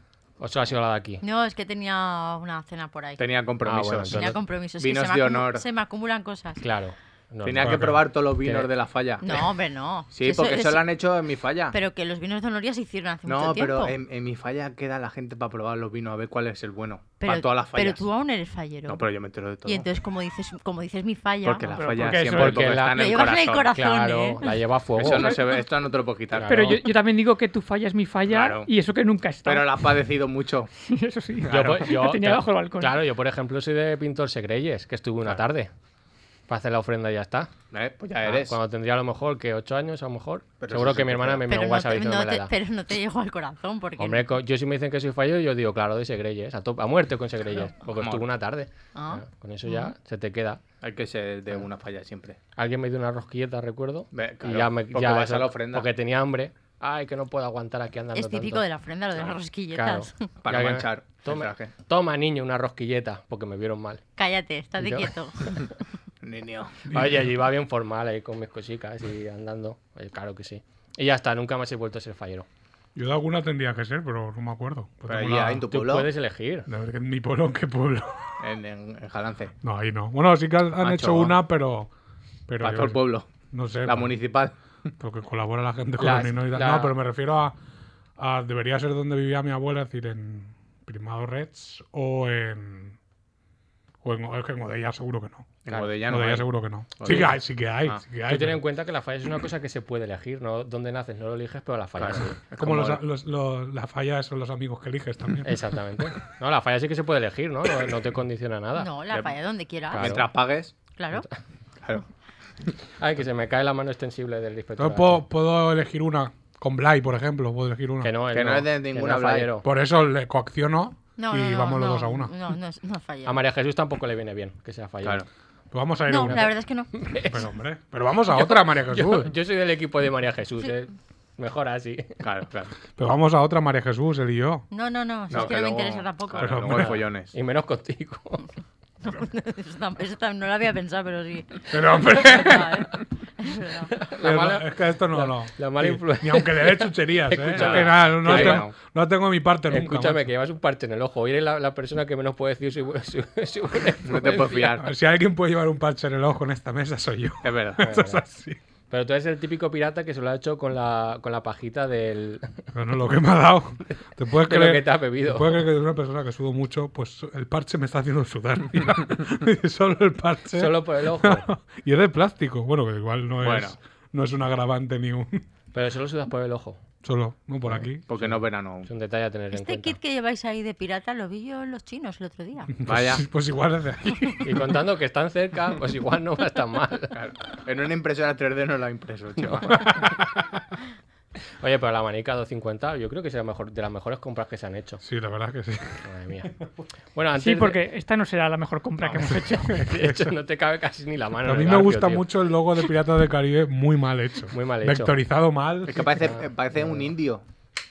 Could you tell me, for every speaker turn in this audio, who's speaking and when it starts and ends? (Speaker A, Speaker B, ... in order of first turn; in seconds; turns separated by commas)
Speaker A: 0.4-1.2, Speaker B: 1.2-3.2, Speaker C: 3.2-5.6, Speaker A: 3.6-4.3, Speaker B: 4.1-6.6, Speaker A: 6.6-8.7, Speaker C: 7.4-9.4, Speaker D: 7.6-8.1, Speaker B: 9.2-10.8, Speaker C: 10.1-11.8, Speaker B: 11.7-14.0, Speaker C: 13.3-18.0, Speaker B: 17.2-19.1, Speaker C: 18.9-19.9, Speaker B: 19.6-21.6, Speaker C: 21.4-23.7, Speaker E: 21.6-22.7, Speaker A: 22.1-25.4, Speaker B: 22.8-24.6, Speaker C: 25.0-26.6, Speaker B: 25.2-25.5, Speaker A: 26.3-26.8, Speaker E: 26.5-29.9, Speaker C: 28.3-28.7, Speaker C: 29.4-30.7, Speaker E: 30.8-33.0, Speaker C: 31.4-31.9, Speaker A: 31.4-35.7, Speaker A: 36.5-37.5, Speaker C: 37.7-38.5, Speaker A: 38.2-42.5, Speaker C: 40.6-41.5, Speaker B: 41.5-44.2, Speaker A: 44.0-50.6, Speaker C: 48.0-48.2, Speaker B: 48.9-49.9, Speaker C: 50.8-52.4, Speaker A: 52.5-58.6, Speaker C: 54.1-55.9, Speaker B: 58.1-60.3, Speaker A: 59.7-64.0, Speaker C: 60.4-61.7, Speaker B: 64.2-65.7, Speaker A: 64.8-65.6, Speaker C: 66.2-66.8, Speaker D: 66.9-67.3, Speaker A: 66.9-72.5, Speaker D: 72.9-75.7, Speaker C: 75.1-76.1, Speaker A: 75.7-76.7, Speaker D: 76.7-78.3, Speaker C: 78.4-79.5, Speaker D: 79.6-81.9, Speaker C: 80.8-81.3, Speaker D: 82.5-84.1, Speaker C: 82.6-83.3, Speaker C: 83.8-84.5, Speaker D: 85.0-87.5, Speaker A: 86.0-87.0, Speaker D: 88.2-93.0, Speaker D: 94.0-98.6, Speaker C: 95.6-96.5, Speaker C: 97.0-98.0, Speaker A: 98.2-102.4, Speaker C: 102.0-103.0, Speaker D: 102.6-105.6, Speaker A: 105.4-108.9, Speaker B: 108.8-110.1, Speaker A: 109.9-110.3, Speaker C: 109.9-110.7, Speaker B: 111.0-111.2, Speaker A: 113.0-115.2, Speaker D: 114.8-118.1, Speaker A: 118.0-119.7, Speaker C: 118.3-119.5, Speaker D: 119.6-122.3, Speaker B: 121.2-123.4, Speaker A: 123.2-125.2, Speaker D: 125.7-126.6, Speaker B: 126.1-127.0, Speaker A: 126.3-127.4, Speaker D: 127.1-129.3, Speaker A: 128.3-132.1, Speaker C: 132.2-132.7, Speaker D: 133.0-134.7, Speaker B: 134.7-136.6, Speaker C: 135.3-137.3, Speaker D: 136.4-137.0, Speaker A: 136.7-138.5, Speaker B: 139.0-143.9, Speaker D: 141.7-143.0, Speaker A: 143.9-148.7, Speaker D: 144.2-150.3, Speaker C: 147.5-148.7, Speaker A: 149.7-154.8, Speaker C: 154.0-154.9, Speaker D: 154.8-158.6, Speaker C: 157.4-157.8, Speaker A: 157.8-158.2, Speaker A: 158.9-162.6, Speaker D: 162.7-175.4, Speaker A: 164.4-165.6, Speaker A: 170.5-171.5, Speaker C: 173.4-173.8, Speaker A: 175.7-176.8, Speaker D: 177.0-178.1, Speaker A: 177.7-180.0, Speaker C: 178.1-178.9, Speaker B: 179.5-182.8, Speaker D: 182.8-184.6, Speaker C: 182.8-183.2, Speaker A: 184.4-187.1, Speaker C: 187.1-189.9, Speaker A: 189.5-189.8, Speaker D: 189.8-190.6, Speaker A: 191.6-195.0, Speaker D: 195.0-196.0, Speaker A: 196.0-196.5, Speaker A: 197.1-197.8, Speaker E: 197.4-199.8, Speaker D: 199.2-200.3, Speaker A: 199.7-202.3, Speaker D: 201.4-206.2, Speaker A: 204.5-205.1, Speaker C: 205.9-207.4, Speaker A: 206.2-207.1